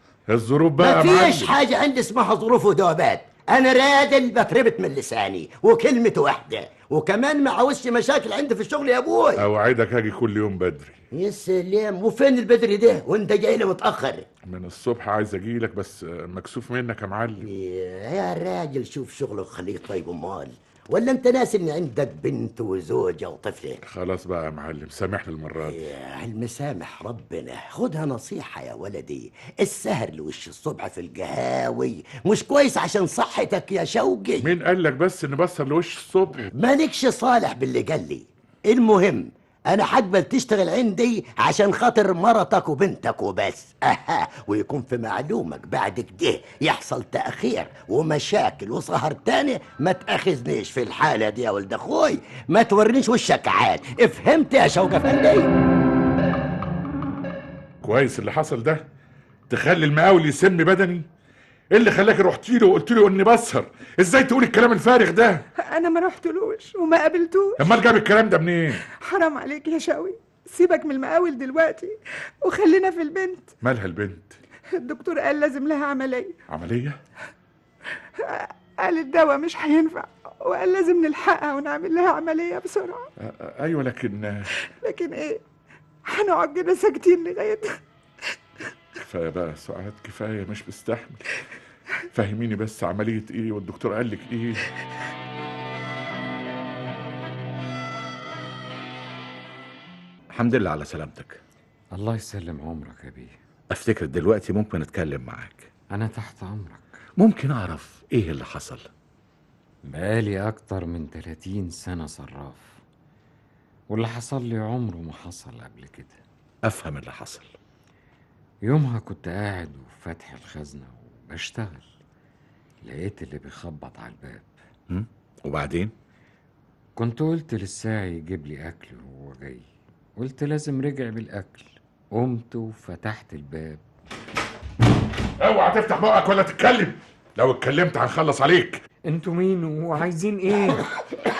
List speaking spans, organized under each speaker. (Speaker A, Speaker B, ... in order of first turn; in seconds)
Speaker A: 0.3-1.5, 9.4-11.0, 14.4-17.4, 23.8-25.8, 34.4-36.5, 57.8-58.8, 59.5-61.1, 61.7-65.4, 67.6-68.8, 73.6-74.3, 76.5-77.0, 83.2-84.5, 89.0-91.4, 92.1-94.7, 135.4-138.8
Speaker B: 0.8-9.4, 11.1-14.3, 17.4-23.8, 25.6-34.5, 36.5-55.5
Speaker C: 65.6-67.7, 68.9-73.5, 74.7-76.3, 78.2-83.1, 84.7-85.4, 86.0-87.8
Speaker D: 100.3-101.4, 103.7-105.7, 107.2-108.9, 116.6-117.5, 124.9-125.9
Speaker E: 101.9-103.4, 105.9-107.0, 109.8-112.8, 113.9-116.2, 118.7-121.9, 122.8-124.5, 127.0-129.7, 130.2-133.8, 139.1-140.8